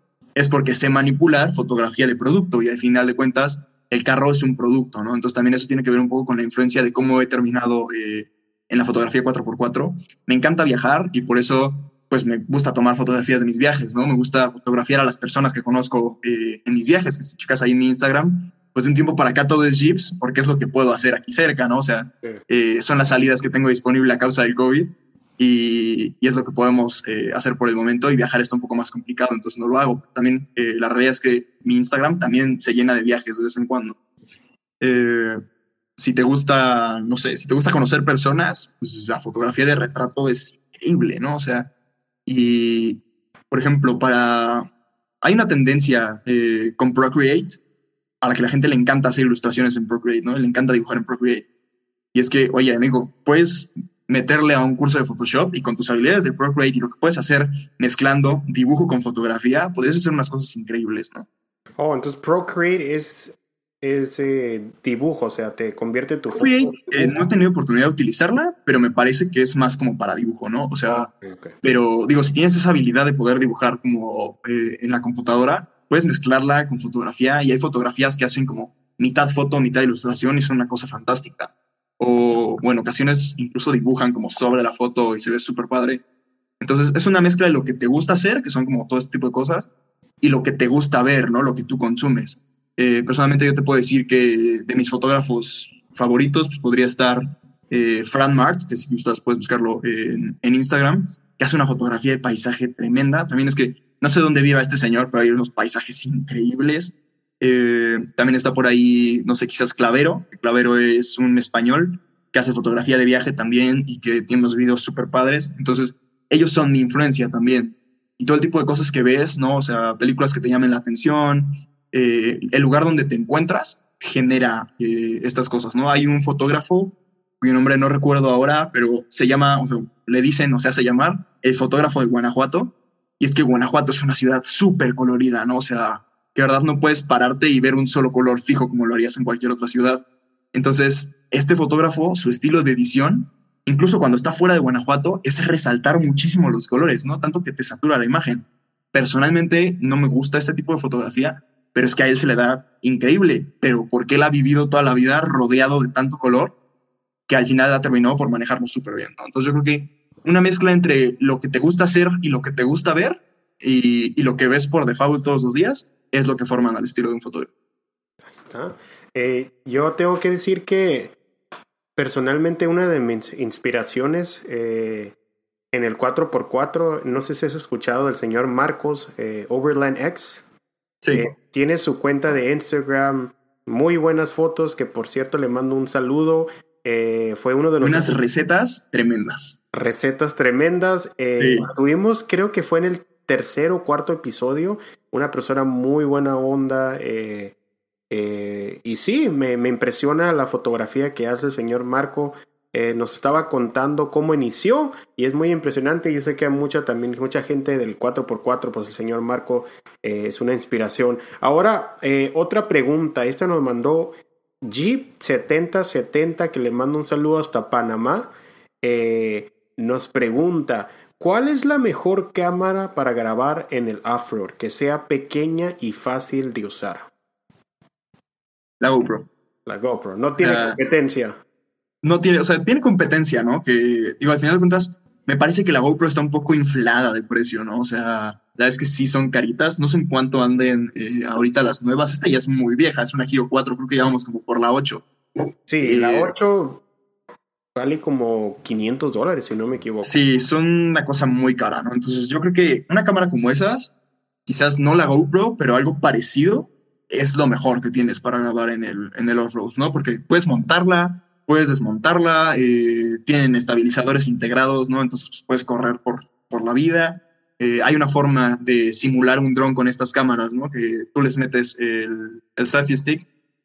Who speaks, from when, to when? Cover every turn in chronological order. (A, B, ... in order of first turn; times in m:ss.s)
0:00.4-0:34.0 A
0:34.8-0:35.4 A
0:36.0-0:41.7 A
0:42.3-0:44.6 A
0:45.2-0:47.6 A
0:48.2-0:51.5 A
0:52.1-1:01.3 A
1:01.8-1:07.2 B
1:06.3-1:11.1 A
1:10.9-1:11.5 B
1:11.6-1:26.0 A
1:26.6-1:29.7 A
1:30.2-2:20.0 A
2:20.5-2:36.5 A
2:37.3-2:47.5 A
2:48.4-2:51.2 B
2:52.0-2:55.2 B
2:55.7-3:00.4 B
3:01.1-3:08.2 B
3:07.8-3:09.6 A
3:09.7-3:17.6 B
3:11.4-3:11.7 A
3:18.1-3:47.1 B
3:48.8-3:49.3 A
3:49.7-3:51.4 B
3:50.4-3:50.8 A
3:52.0-4:05.1 A
4:05.7-4:06.8 B
4:05.8-4:06.3 A
4:07.8-4:10.2 B
4:10.0-4:13.9 A
4:14.5-4:33.2 A